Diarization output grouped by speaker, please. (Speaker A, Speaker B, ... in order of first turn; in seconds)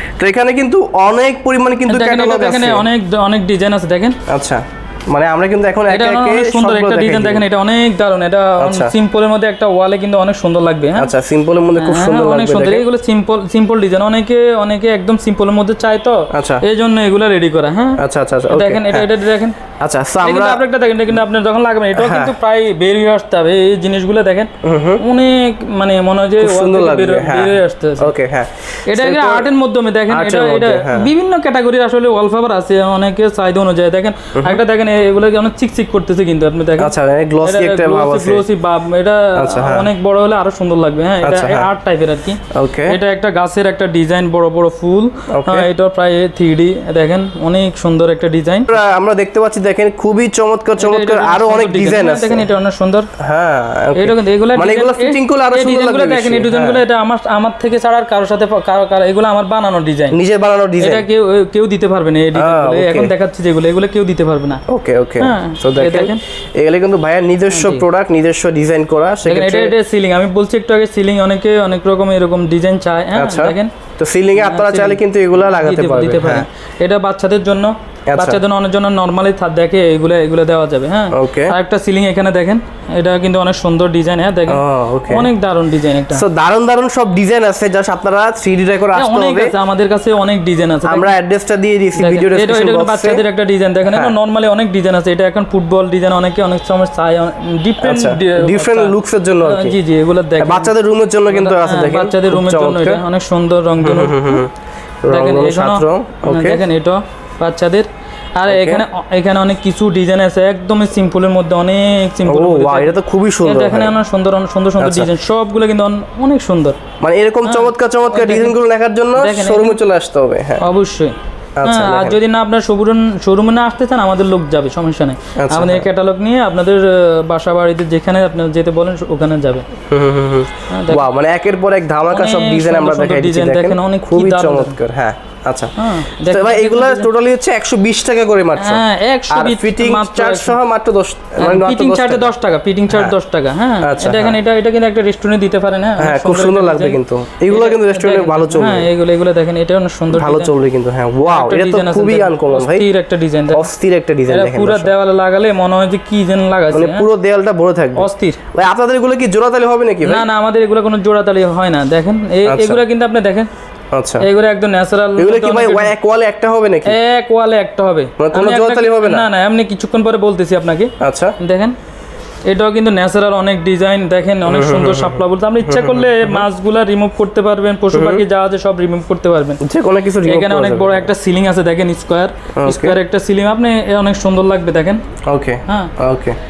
Speaker A: 0.2-2.8, 4.3-7.4, 8.6-8.9, 10.9-12.8, 16.3-16.6, 18.0-19.1, 19.8-20.6, 21.9-22.3, 24.6-25.0, 26.4-29.5, 30.1-31.1, 36.8-38.4, 39.4-39.9, 41.2-41.7, 42.5-43.0, 45.3-45.7, 48.7-52.4, 53.2-56.8, 60.1-61.0, 62.3-63.1, 64.7-69.7, 73.1-76.4, 78.1-78.4, 81.1-81.5, 84.5-85.3, 86.1-89.5, 90.8-93.2, 93.8-94.1, 97.8-99.8, 100.4-103.0, 103.8-104.5, 105.0-106.6, 108.5-108.8, 112.2-113.9, 114.8-115.1, 117.0-120.6, 121.6-122.2, 125.3-125.8, 129.9-142.3, 143.8-144.3, 146.0-148.9, 150.1-152.8, 153.5-154.9, 156.7-160.2, 162.4-162.8, 163.9-164.2, 165.2-166.9, 168.2-169.2, 171.0-171.3, 174.5-176.4, 177.9-178.2, 179.6-181.1, 182.6-183.0, 185.2-186.3
Speaker B: 1.9-4.2, 5.9-11.1, 11.8-19.6, 20.2-28.1, 28.9-48.8, 50.8-53.1, 53.9-60.2, 60.8-64.6, 65.2-66.2, 67.5-67.8, 69.2-73.7, 74.3-86.2, 88.9-91.1, 92.0-100.7, 101.3-104.4, 105.1-116.8, 117.4-118.6, 119.1-119.8, 120.6-129.7, 130.7-131.1, 132.1-134.8, 135.8-137.1, 138.6-140.6, 141.4-150.5, 151.2-153.6, 154.3-157.1, 158.0-158.4, 160.0-163.5, 164.2-165.9, 166.8-171.8, 172.4-179.6, 180.2-185.0, 185.7-185.9